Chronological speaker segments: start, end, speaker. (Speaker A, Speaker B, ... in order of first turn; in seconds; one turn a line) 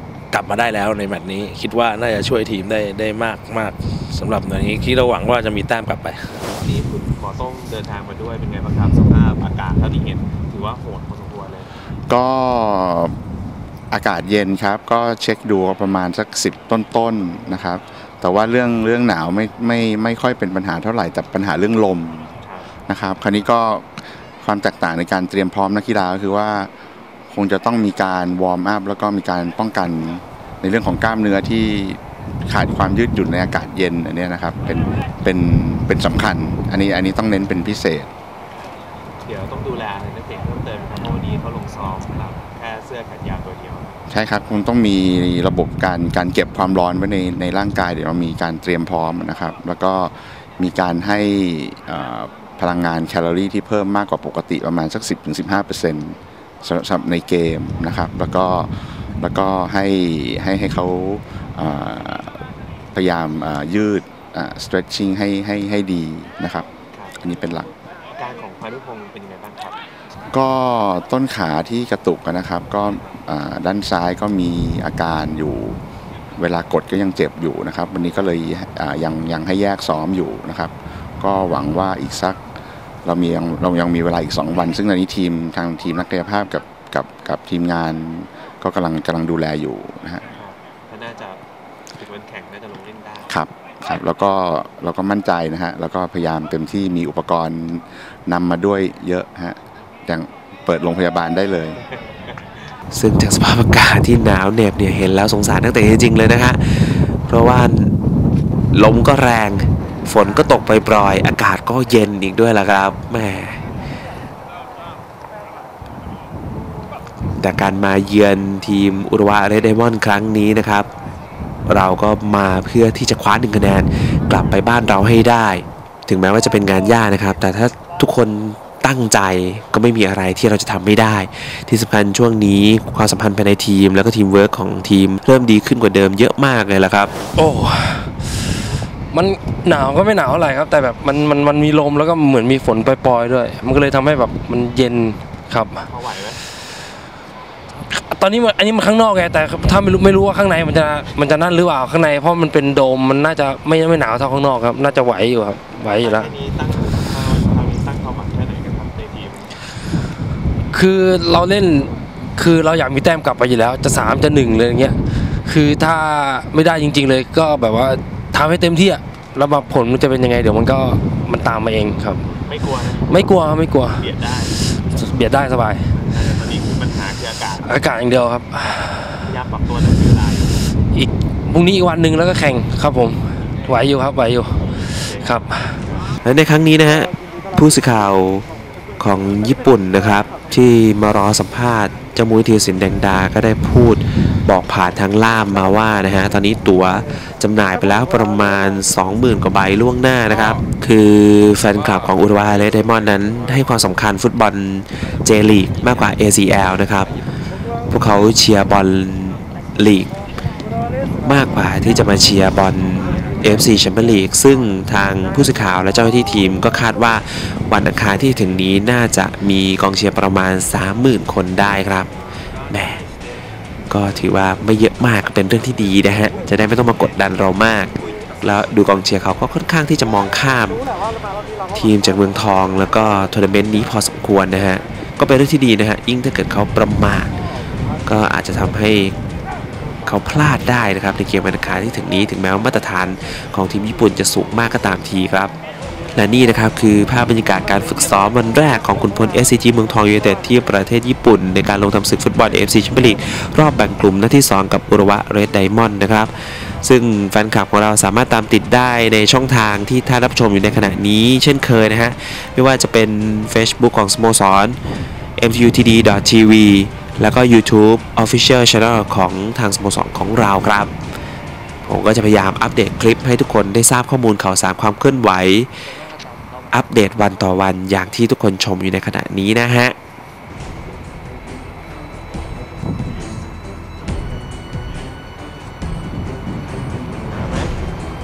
Speaker A: 0.3-6.4
Speaker B: 6.6-11.7
Speaker C: 12.1-13.2
Speaker C: 13.9-22.3
Speaker B: 22.4-22.7
Speaker C: 22.9-26.7
Speaker C: 27.3-38.1
Speaker B: 39.2-44.0
Speaker C: 44.1-66.7
Speaker B: 66.9-67.2
Speaker C: 67.2-67.7
Speaker B: 68.2-69.8
Speaker C: 70.3-75.8
Speaker C: 76.3-82.4
Speaker C: 83.0-90.2
Speaker B: 90.3-91.4
Speaker B: 92.0-93.4
Speaker C: 93.3-101.8
Speaker D: 102.9-107.9
Speaker D: 108.7-113.6
Speaker D: 117.4-120.9
Speaker D: 121.7-137.1
Speaker E: 137.4-138.2
Speaker E: 139.1-145.9
Speaker B: 145.8-146.4
Speaker E: 147.9-156.3
Speaker B: 155.8-159.6
Speaker E: 160.7-172.2
Speaker B: 172.3-173.2
Speaker E: 173.1-174.0
Speaker B: 173.9-174.6
Speaker E: 174.9-175.9
Speaker B: 176.0-177.8
Speaker E: 177.6-179.2
Speaker B: 179.2-180.6
Speaker E: 180.9-185.8
Speaker B: 184.8-186.1
Speaker D: 186.2-188.5
Speaker D: 189.0-207.1
Speaker D: 207.9-210.1
Speaker D: 211.2-222.1
Speaker D: 222.7-223.1
Speaker D: 223.9-230.8
Speaker D: 231.7-237.4
Speaker D: 238.1-239.2
Speaker D: 240.1-245.5
Speaker D: 246.1-264.8
Speaker D: 265.4-270.9
Speaker D: 271.9-275.7
Speaker D: 276.7-280.0
Speaker B: 287.3-287.7